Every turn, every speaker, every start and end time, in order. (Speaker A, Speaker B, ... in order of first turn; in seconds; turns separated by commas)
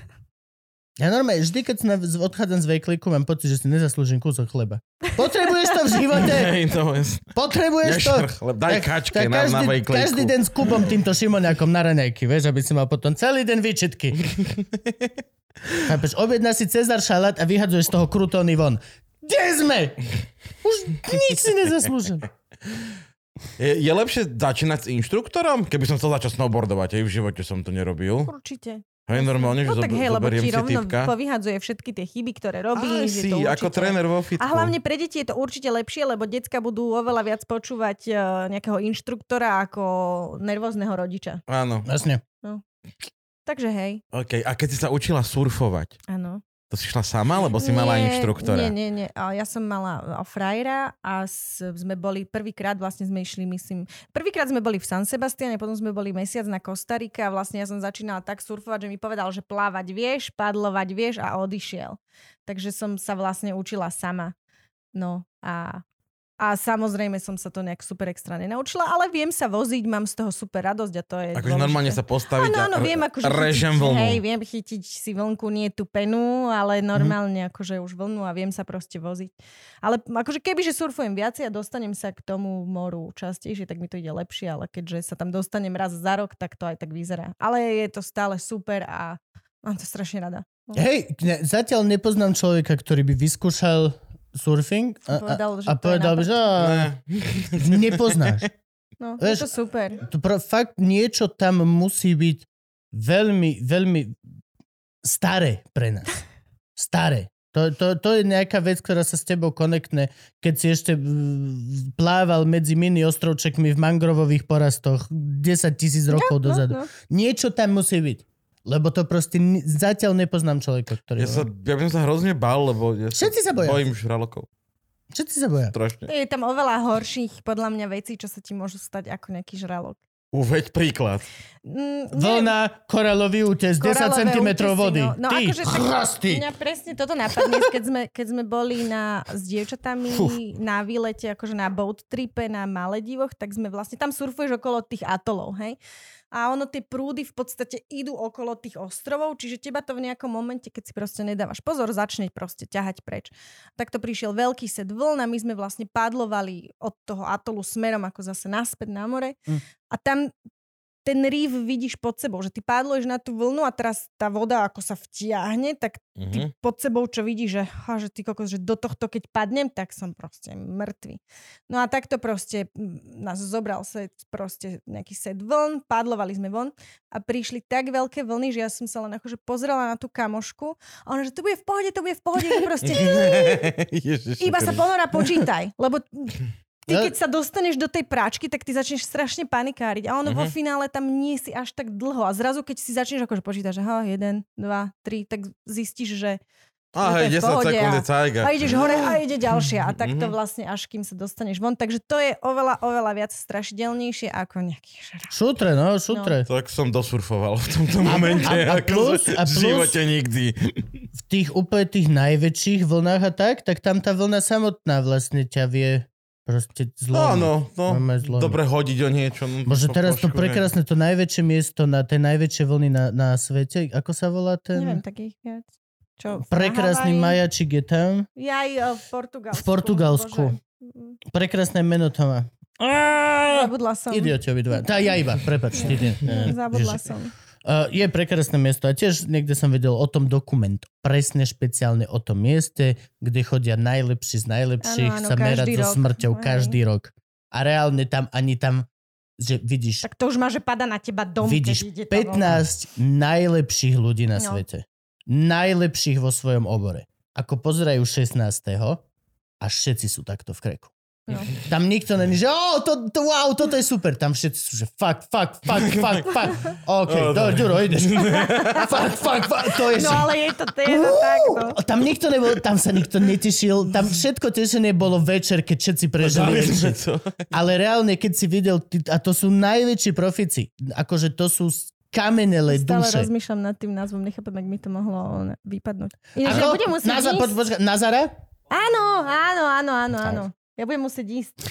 Speaker A: 1.0-6.5, Speaker B: 6.1-10.3, Speaker A: 7.3-14.2, Speaker B: 14.3-15.1, Speaker A: 15.8-20.0, Speaker A: 20.6-22.3, Speaker B: 23.6-28.3, Speaker C: 28.2-41.4, Speaker B: 29.1-31.1, Speaker B: 32.7-34.7, Speaker B: 41.5-41.9, Speaker A: 41.8-42.2, Speaker C: 43.5-44.0, Speaker B: 44.1-46.0, Speaker C: 46.1-46.4, Speaker B: 46.7-48.7, Speaker C: 47.6-64.3, Speaker C: 64.9-65.8, Speaker C: 66.4-90.8, Speaker B: 71.3-74.2, Speaker A: 90.7-96.9, Speaker C: 95.1-96.4, Speaker B: 96.6-98.4, Speaker A: 97.5-98.5, Speaker C: 99.0-100.0, Speaker A: 99.2-99.5, Speaker A: 100.0-104.2, Speaker A: 105.0-106.1, Speaker A: 106.8-121.5, Speaker C: 116.1-116.9, Speaker B: 121.2-124.5, Speaker A: 123.1-123.8, Speaker A: 125.1-125.7, Speaker B: 125.7-126.1, Speaker C: 126.1-130.0, Speaker B: 130.3-131.2, Speaker C: 131.7-132.5, Speaker A: 132.1-136.4, Speaker C: 133.8-145.8, Speaker C: 146.3-160.3, Speaker C: 161.0-183.7, Speaker B: 166.2-166.5, Speaker B: 182.8-185.4, Speaker C: 184.4-196.4, Speaker B: 190.3-190.5, Speaker B: 196.9-200.3, Speaker C: 197.0-205.3, Speaker A: 205.3-206.5, Speaker C: 206.1-206.3, Speaker B: 206.5-210.9, Speaker C: 208.1-208.4, Speaker A: 208.4-210.0, Speaker A: 211.2-218.6, Speaker B: 217.1-220.7, Speaker A: 219.7-225.0, Speaker C: 224.7-225.7, Speaker C: 226.2-227.4, Speaker A: 226.4-228.3, Speaker C: 228.3-231.2, Speaker A: 229.5-230.6, Speaker A: 231.3-237.1, Speaker C: 233.5-234.4, Speaker C: 235.8-237.3, Speaker A: 237.6-248.9, Speaker C: 244.8-246.8, Speaker A: 249.4-250.1, Speaker C: 250.0-252.6, Speaker A: 251.4-259.0, Speaker C: 254.4-254.6, Speaker A: 259.6-260.9, Speaker A: 261.5-270.3, Speaker B: 267.1-268.9, Speaker C: 268.3-271.8, Speaker A: 270.8-277.0, Speaker B: 276.2-277.5, Speaker A: 277.5-283.3, Speaker C: 282.7-287.5, Speaker A: 286.4-288.3, Speaker C: 288.7-291.5